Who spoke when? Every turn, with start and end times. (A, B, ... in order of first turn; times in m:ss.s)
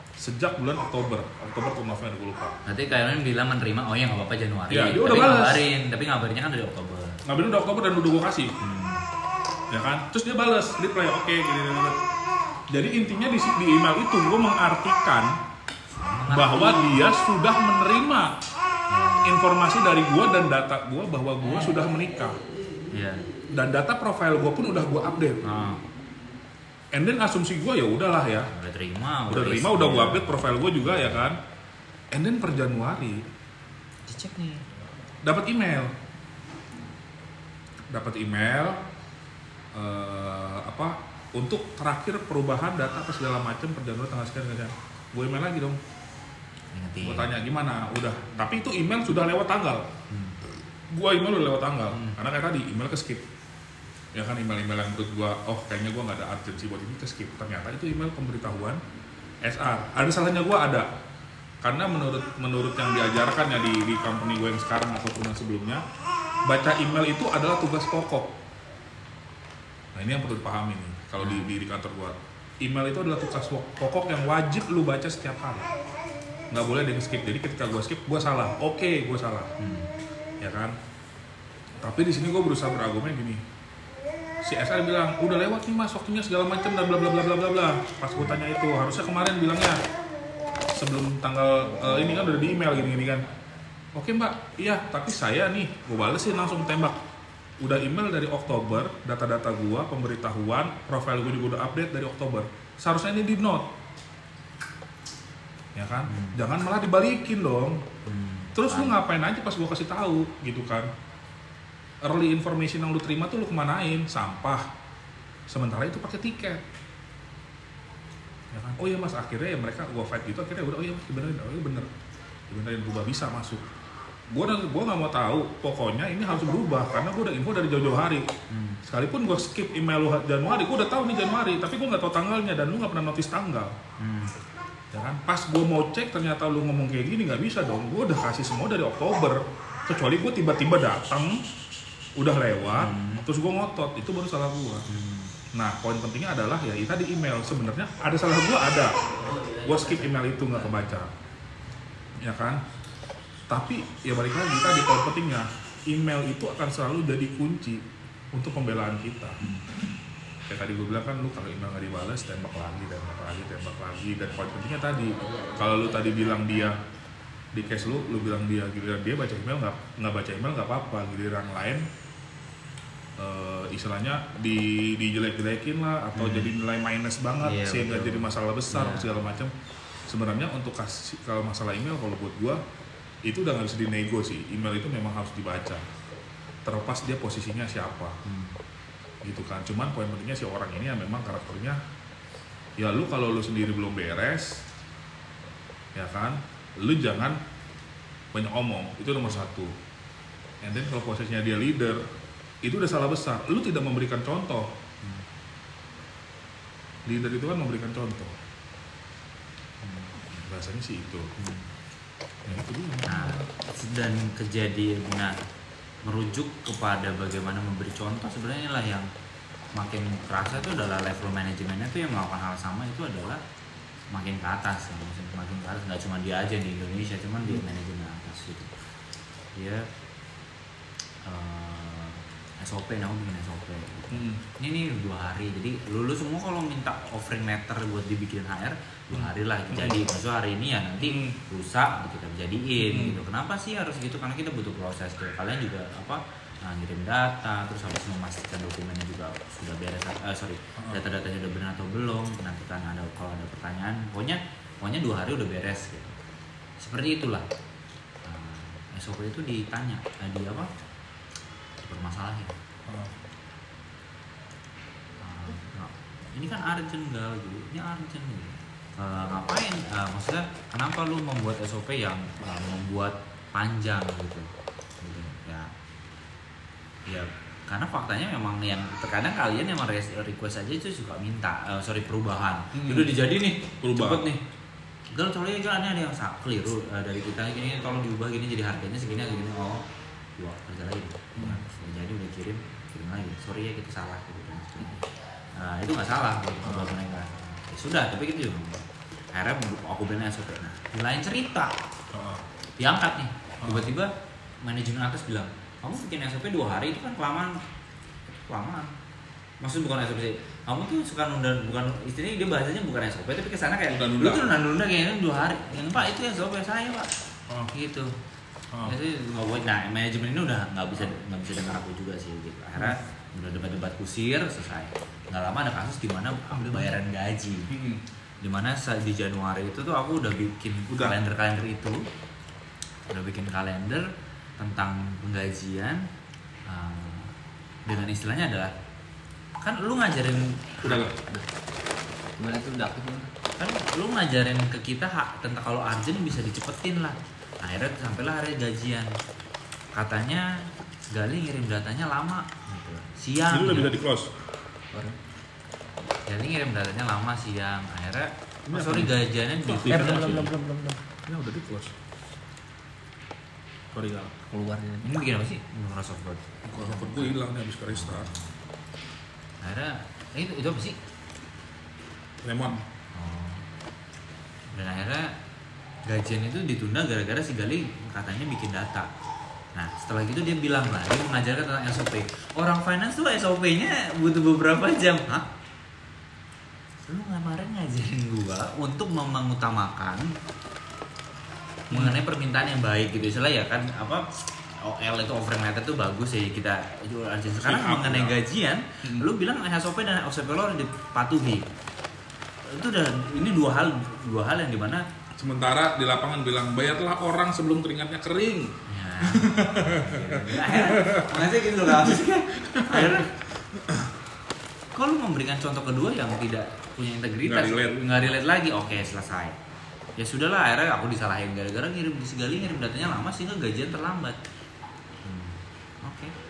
0:00.2-0:02.6 A
0:02.6-0:07.2 B
0:04.7-0:05.6 A
0:07.2-0:08.6 A
0:08.6-0:09.0 B
0:09.7-0:12.0 A
0:12.7-0:15.4 A
0:15.9-0:17.0 B
0:16.3-0:18.4 A
0:18.9-0:19.3 B
0:19.2-0:22.4 A
0:22.9-0:23.3 B
0:23.5-0:25.4 A
0:25.4-0:25.8 B
0:26.9-0:28.5 A
0:28.5-0:31.2 B
0:29.3-0:31.4 A
0:32.1-0:33.2 A
0:34.0-0:34.6 B
0:35.2-0:35.9 A
0:37.9-0:38.8 A
0:39.7-0:45.8 A
0:46.7-0:47.3 B
0:47.0-0:49.9 A
0:50.1-0:50.4 B
0:50.9-0:53.2 A
0:54.1-0:58.8 A
0:59.4-1:00.9 A
1:01.6-1:05.8 A
1:06.5-1:08.3 A
1:09.9-1:15.7 A
1:11.2-1:11.5 B
1:16.5-1:19.5 A
1:19.6-1:19.9 B
1:20.4-1:20.8 A
1:21.8-1:23.4 A
1:24.4-1:29.8 A
1:30.7-1:33.2 A
1:33.9-1:37.0 A
1:37.6-1:43.7 A
1:45.7-1:47.8 A
1:46.0-1:46.4 B
1:48.0-1:49.0 B
1:48.5-1:50.9 A
1:52.0-1:54.6 A
1:55.5-1:56.6 A
1:58.5-2:01.9 A
2:02.5-2:03.6 A
2:04.3-2:08.2 A
2:08.5-2:08.8 B
2:08.8-2:13.8 A
2:14.0-2:14.3 B
2:14.9-2:21.4 A
2:22.2-2:24.8 A
2:22.8-2:23.3 B
2:24.9-2:25.3 B
2:25.5-2:29.0 A
2:29.1-2:31.0 B
2:29.6-2:31.1 A
2:32.2-2:32.6 A
2:33.5-2:37.8 A
2:38.3-2:39.4 A
2:39.4-2:39.6 B
2:40.5-2:46.8 A
2:45.2-2:46.6 C
2:47.5-2:51.8 A
2:53.2-2:59.5 A
2:56.1-2:56.5 B
2:57.4-2:59.1 B
3:00.1-3:02.6 A
3:03.2-3:05.8 A
3:06.6-3:08.2 A
3:08.2-3:08.5 B
3:09.2-3:11.8 A
3:12.8-3:14.6 A
3:15.9-3:17.4 A
3:18.3-3:19.7 A
3:20.6-3:22.0 A
3:22.6-3:24.7 A
3:27.0-3:28.3 A
3:29.8-3:30.2 B
3:30.3-3:31.3 A
3:31.4-3:31.7 B
3:32.4-3:33.5 A
3:33.0-3:35.3 B
3:36.0-3:39.1 B
3:39.7-3:43.4 B
3:44.1-3:48.7 B
3:49.6-3:49.9 B
3:51.2-4:16.2 B
3:54.1-3:54.4 A
3:59.1-4:00.0 A
4:01.0-4:01.4 A
4:02.8-4:03.2 A
4:16.8-4:17.4 B
4:18.2-4:20.7 B
4:21.8-4:22.6 B
4:22.9-4:23.1 A
4:25.2-4:34.5 B
4:35.0-4:35.7 B
4:37.0-4:44.4 B
4:42.7-4:43.1 A
4:43.8-4:44.3 A
4:45.1-4:49.8 B
4:50.4-4:55.0 B
4:51.4-4:51.6 A
4:55.5-5:01.7 B
4:56.6-4:57.0 A
5:02.1-5:02.4 A
5:02.8-5:07.6 B
5:03.6-5:03.9 A
5:08.3-5:08.9 B
5:09.6-5:17.1 B
5:13.9-5:14.6 A
5:17.7-5:18.1 B
5:18.8-5:27.7 B
5:26.5-5:26.9 A
5:27.7-5:28.0 A
5:28.4-5:32.0 B
5:30.9-5:31.2 A
5:33.1-5:36.0 B
5:36.6-5:37.3 B
5:37.8-5:38.7 B
5:39.6-5:41.1 B
5:40.8-5:41.1 A
5:42.4-5:43.3 C
5:43.6-5:49.1 B
5:49.9-5:53.9 B
5:53.5-5:54.3 A
5:54.9-5:55.2 C
5:56.2-6:00.5 B
5:58.7-6:00.5 A
5:59.8-6:01.0 C
6:01.2-6:01.9 A
6:03.9-6:04.4 A
6:04.5-6:05.2 C
6:05.0-6:07.4 B
6:06.6-6:08.3 A
6:07.9-6:08.5 B
6:09.6-6:11.0 B
6:12.4-6:12.8 A
6:13.1-6:13.6 B
6:14.7-6:15.3 B
6:16.0-6:19.1 B
6:19.7-6:25.5 B
6:27.1-6:30.3 B
6:31.9-6:32.2 A
6:31.9-6:41.6 B
6:37.6-6:38.4 A
6:39.0-6:39.3 A
6:42.6-6:45.0 B
6:45.4-6:54.1 A
6:48.9-6:53.3 B
6:54.9-6:59.6 B
6:57.4-6:58.0 A
7:00.2-7:04.4 B
7:05.2-7:06.3 B